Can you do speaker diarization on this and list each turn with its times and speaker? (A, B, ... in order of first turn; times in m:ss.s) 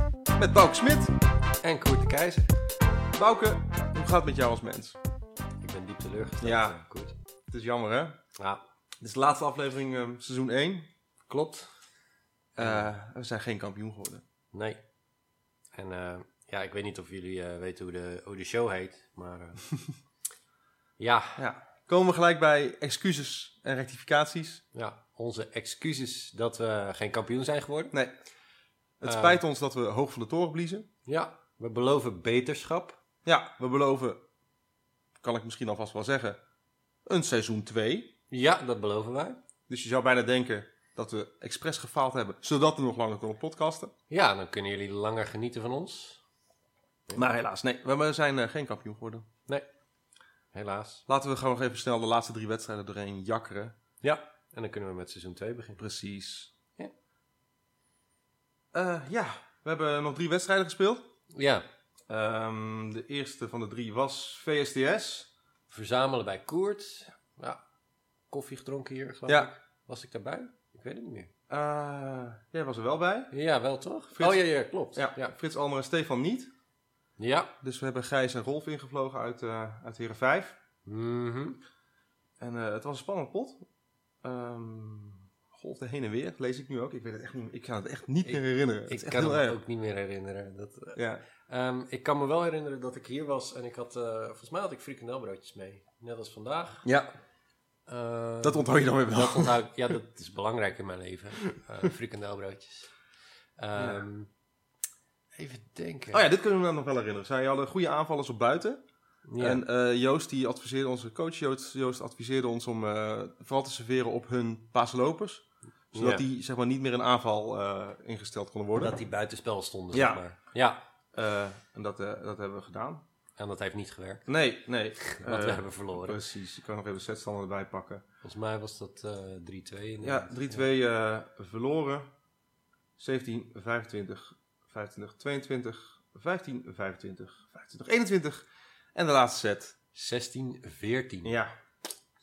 0:00.4-0:01.1 A
0:01.6-0:02.5 B
0:03.1-0:05.0 A
0:05.6-0:07.2 B
0:06.4-0:06.8 A
0:07.5-0:08.2 A
0:09.0-0:10.9 A
0:11.3-0:11.7 B
0:12.6-0:12.9 B
0:12.6-0:14.2 A
0:14.5-0:14.8 B
0:15.7-0:19.6 B
0:21.0-0:21.4 B
0:21.4-0:24.6 A
0:24.7-0:27.9 B
0:29.0-0:30.9 A
0:29.0-0:29.4 B
0:31.1-0:33.0 B
0:33.2-0:34.2 A
0:35.2-0:36.4 A
0:37.0-0:38.1 A
0:38.3-0:39.4 B
0:39.7-0:43.9 A
0:44.1-0:46.2 B
0:47.1-0:49.2 A
0:50.5-0:51.0 B
0:51.1-0:53.7 A
0:54.0-0:55.8 B
0:55.8-0:56.9 A
0:58.7-1:01.1 A
1:01.3-1:01.6 B
1:02.1-1:05.3 A
1:05.7-1:07.6 B
1:08.3-1:11.3 B
1:11.5-1:13.3 A
1:13.3-1:15.4 B
1:14.1-1:16.5 A
1:17.2-1:17.5 B
1:17.6-1:20.6 A
1:20.8-1:21.6 B
1:22.4-1:23.6 A
1:24.2-1:29.6 A
1:28.2-1:36.8 B
1:31.0-1:31.2 A
1:36.8-1:37.1 A
1:37.9-1:42.9 B
1:38.4-1:39.6 A
1:43.6-1:44.3 B
1:43.8-1:44.0 A
1:45.3-1:46.2 B
1:46.1-1:48.8 A
1:49.3-1:49.6 B
1:49.4-1:59.0 A
1:55.9-1:56.2 B
1:58.7-2:00.8 B
1:59.9-2:00.2 A
2:01.1-2:03.0 A
2:03.4-2:04.2 B
2:04.3-2:08.0 A
2:05.0-2:06.2 B
2:08.2-2:10.7 B
2:10.0-2:12.1 A
2:13.0-2:19.8 A
2:19.9-2:21.4 B
2:21.2-2:21.5 A